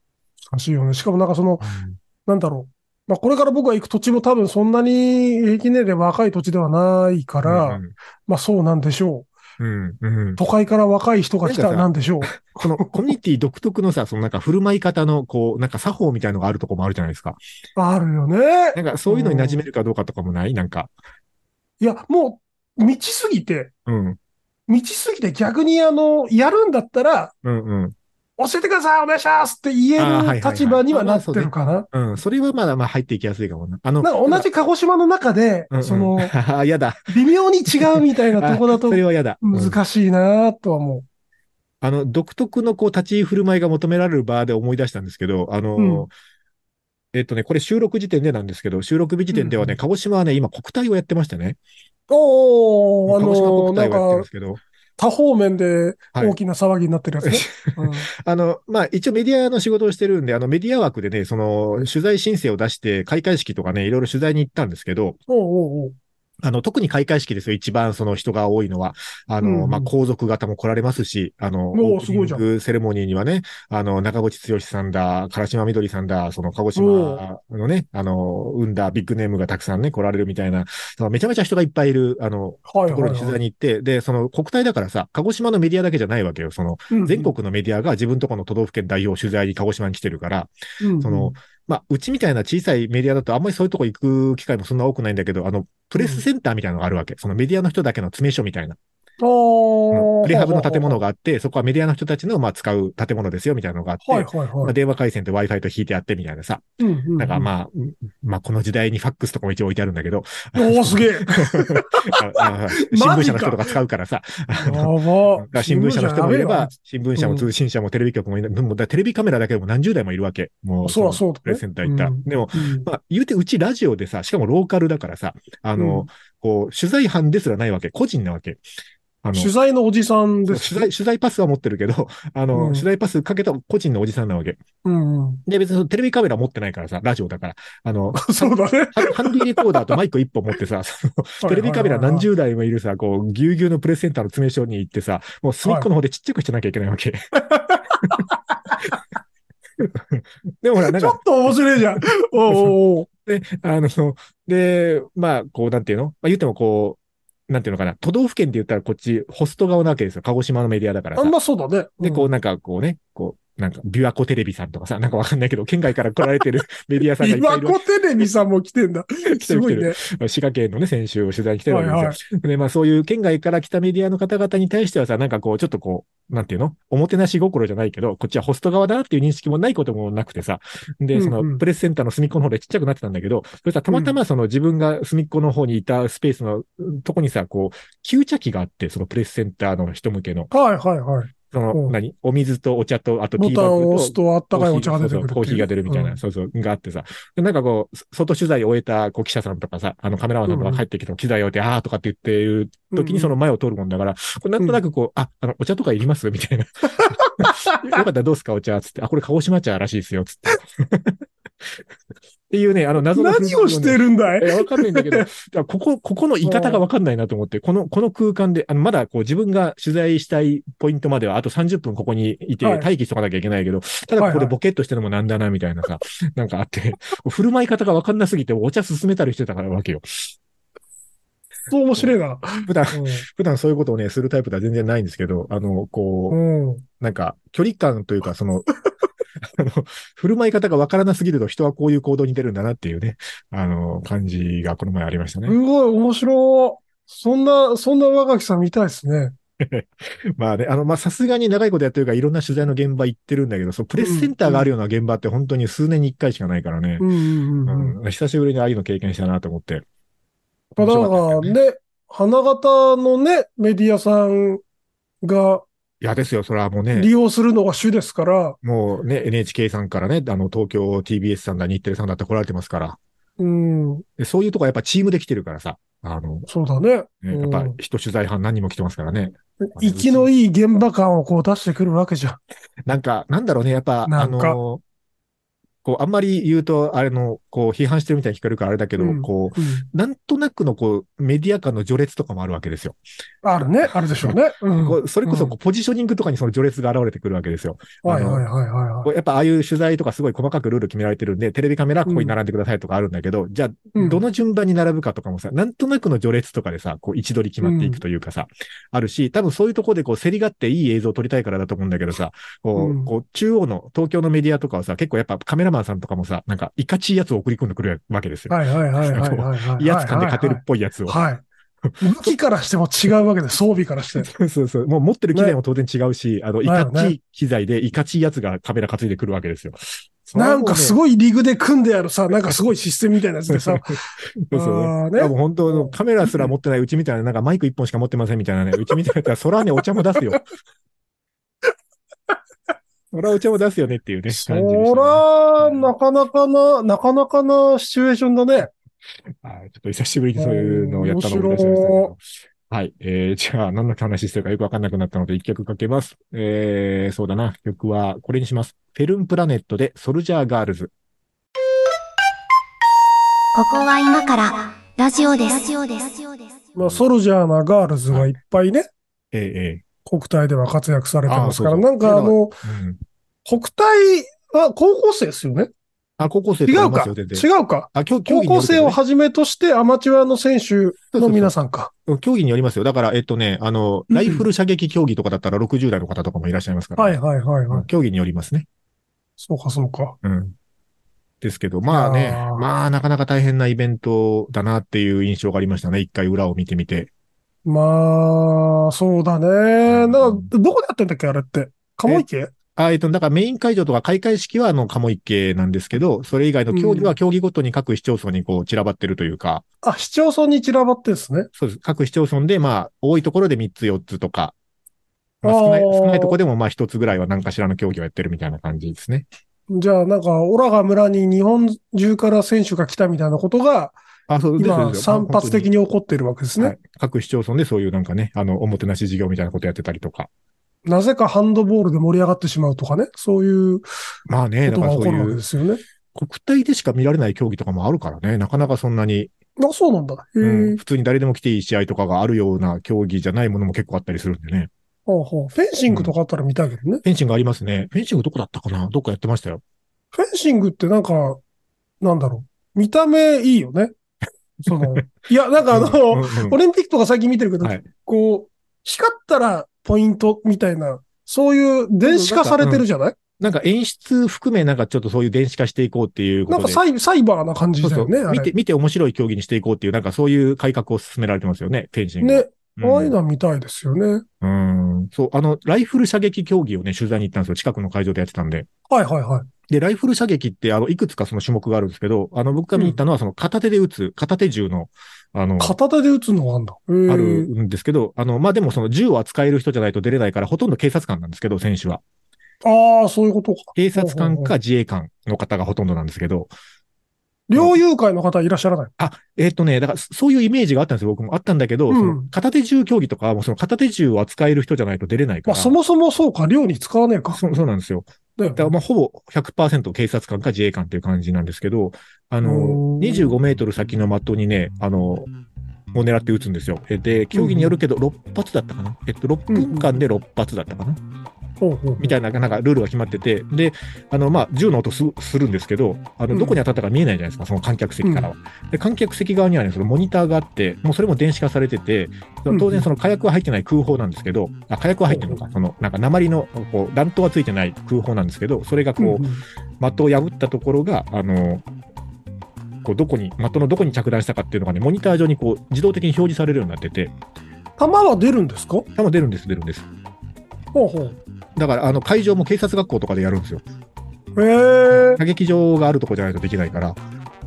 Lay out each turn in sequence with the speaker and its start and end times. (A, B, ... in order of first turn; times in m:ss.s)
0:00.5-0:01.7 A
0:01.6-0:02.0 B
0:02.3-0:09.3 A
0:07.4-0:07.9 B
0:09.6-0:10.4 B
0:10.4-0:12.9 A
0:11.4-0:17.4 B
0:17.8-0:19.6 A
0:18.8-0:20.9 B
0:21.8-0:23.7 A
0:23.9-0:24.2 B
0:24.7-0:27.3 A
0:27.4-0:28.0 B
0:28.4-0:31.9 A
0:30.0-0:34.5 B
0:34.0-0:36.3 A
0:35.7-0:37.1 B
0:37.1-0:41.1 A
0:37.7-0:39.8 B
0:41.8-0:46.1 B
0:45.8-0:46.1 A
0:47.1-0:51.6 B
0:49.3-0:49.8 A
0:52.1-0:54.3 A
0:53.1-0:54.6 B
0:55.0-0:58.1 A
0:57.2-1:05.2 B
1:05.3-1:06.0 A
1:06.4-1:38.8 B
1:09.4-1:09.9 A
1:11.7-1:12.4 A
1:16.8-1:17.2 A
1:22.7-1:23.4 A
1:26.9-1:27.3 A
1:30.8-1:31.3 A
1:36.0-1:36.2 A
1:39.2-1:41.0 A
1:39.9-1:46.6 B
1:44.0-1:44.8 A
1:46.8-1:47.5 A
1:47.2-2:08.6 B
1:50.6-1:53.8 A
1:54.6-1:57.5 A
2:00.8-2:02.9 A
2:05.8-2:06.1 A
2:09.2-2:09.5 B
2:09.4-2:10.9 A
2:10.5-2:14.6 B
2:12.5-2:12.9 A
2:14.8-2:15.4 A
2:15.5-2:27.2 B
2:18.2-2:19.8 A
2:21.4-2:22.3 A
2:27.5-2:29.0 A
2:29.8-2:31.8 B
2:30.9-2:33.1 A
2:32.5-2:32.8 B
2:33.3-2:41.3 B
2:41.2-2:42.3 A
2:42.0-2:47.8 B
2:47.2-2:50.0 A
2:49.3-3:10.5 B
2:51.7-2:52.2 A
3:01.1-3:01.6 A
3:03.9-3:04.2 A
3:10.5-3:12.0 A
3:11.5-3:31.9 B
3:13.4-3:16.2 A
3:20.5-3:20.8 A
3:22.9-3:23.3 A
3:27.0-3:28.0 A
3:32.5-3:50.3 B
3:33.1-3:35.3 A
3:36.4-3:36.8 A
3:42.6-3:42.9 A
3:44.2-3:44.5 A
3:51.7-3:53.3 A
3:52.7-3:56.4 B
3:56.3-3:56.8 A
3:57.0-3:58.7 B
3:59.4-4:05.6 B
4:05.5-4:09.4 A
4:09.6-4:17.1 B
4:14.0-4:14.7 A
4:17.0-4:18.0 A
4:17.7-4:19.8 B
4:20.8-4:24.6 A
4:20.8-4:21.5 B
4:25.2-4:25.7 A
4:26.0-4:27.1 B
4:27.0-4:28.6 A
4:28.6-4:33.0 B
4:33.4-4:34.0 A
4:34.2-4:36.5 B
4:36.5-4:37.8 A
4:37.2-4:40.3 B
4:39.6-4:42.4 A
4:42.9-4:44.8 B
4:44.1-4:44.6 A
4:45.8-4:53.0 B
4:49.0-4:49.9 A
4:53.4-4:55.6 A
4:54.2-4:58.4 B
4:58.0-4:59.1 A
4:59.0-5:21.2 B
5:02.1-5:02.4 A
5:04.0-5:04.2 A
5:07.6-5:08.0 A
5:12.8-5:13.1 A
5:18.5-5:21.4 A
5:22.0-5:24.3 A
5:24.2-5:31.0 B
5:26.6-5:27.2 A
5:30.3-5:34.0 A
5:33.5-5:40.4 B
5:34.5-5:36.5 A
5:43.1-5:45.9 B
5:44.3-5:48.7 A
5:49.4-6:00.9 B
5:50.4-5:52.1 A
6:03.5-6:06.7 C
6:06.8-6:08.9 A
6:09.3-6:09.8 B
6:10.0-6:12.6 A
6:11.3-6:13.0 B
6:13.5-6:15.7 A
6:16.2-6:19.0 B
6:16.7-6:21.9 A
6:21.1-6:21.5 B
6:22.1-6:27.2 B
6:24.1-6:24.4 A
6:27.0-6:27.9 A
6:27.7-6:28.7 B
6:29.4-6:30.2 A
6:30.2-6:30.6 B
6:31.4-6:37.1 B
6:31.9-6:32.7 A
6:37.7-6:42.5 A
6:39.9-6:40.5 B
6:42.8-6:49.6 B
6:46.7-6:47.2 A
6:49.8-6:51.5 A
6:51.6-6:54.6 B
6:55.4-6:59.3 B
6:55.4-6:56.4 A
6:59.7-7:04.0 A
7:04.3-7:05.7 B
7:04.6-7:06.8 A
7:06.6-7:10.3 B
7:10.9-7:13.8 A
7:14.3-7:15.4 B
7:14.7-7:15.8 A
7:16.2-7:19.3 B
7:19.6-7:20.8 A
7:20.4-7:24.7 B
7:25.1-7:27.0 A
7:25.9-7:26.1 B
7:27.0-7:29.6 B
7:30.1-7:31.4 A
7:32.0-7:33.9 A
7:34.7-7:43.2 A
7:34.8-7:35.0 B
7:35.7-7:36.6 B
7:42.0-7:42.8 B
7:43.4-7:46.8 B
7:46.5-7:48.5 A
7:47.8-7:53.1 B
7:52.2-7:54.2 A
7:54.4-7:58.7 B
7:58.9-7:59.5 A
7:59.7-8:05.8 B
8:05.6-8:07.5 A
8:07.1-8:12.0 B
8:12.6-8:14.5 A
8:13.8-8:16.5 B
8:17.5-8:18.9 A
8:19.0-8:25.7 B
8:21.9-8:22.3 A
8:25.5-8:27.4 A
8:27.3-8:35.3 B
8:28.4-8:28.7 A
8:32.4-8:33.3 A
8:35.9-8:41.0 B
8:37.3-8:37.8 A
8:39.5-8:40.0 A
8:41.6-8:42.1 A
8:42.0-8:59.3 B
8:46.3-8:46.6 A
8:48.0-8:48.3 A
8:52.5-8:52.9 A
8:55.1-8:55.4 A
8:59.0-8:59.4 A
8:59.8-9:01.6 B
9:02.8-9:07.1 B
9:07.8-9:08.9 A
9:09.0-9:09.9 B
9:10.7-9:11.2 A
9:11.6-9:13.6 B
9:14.4-9:15.2 A
9:14.9-9:17.0 B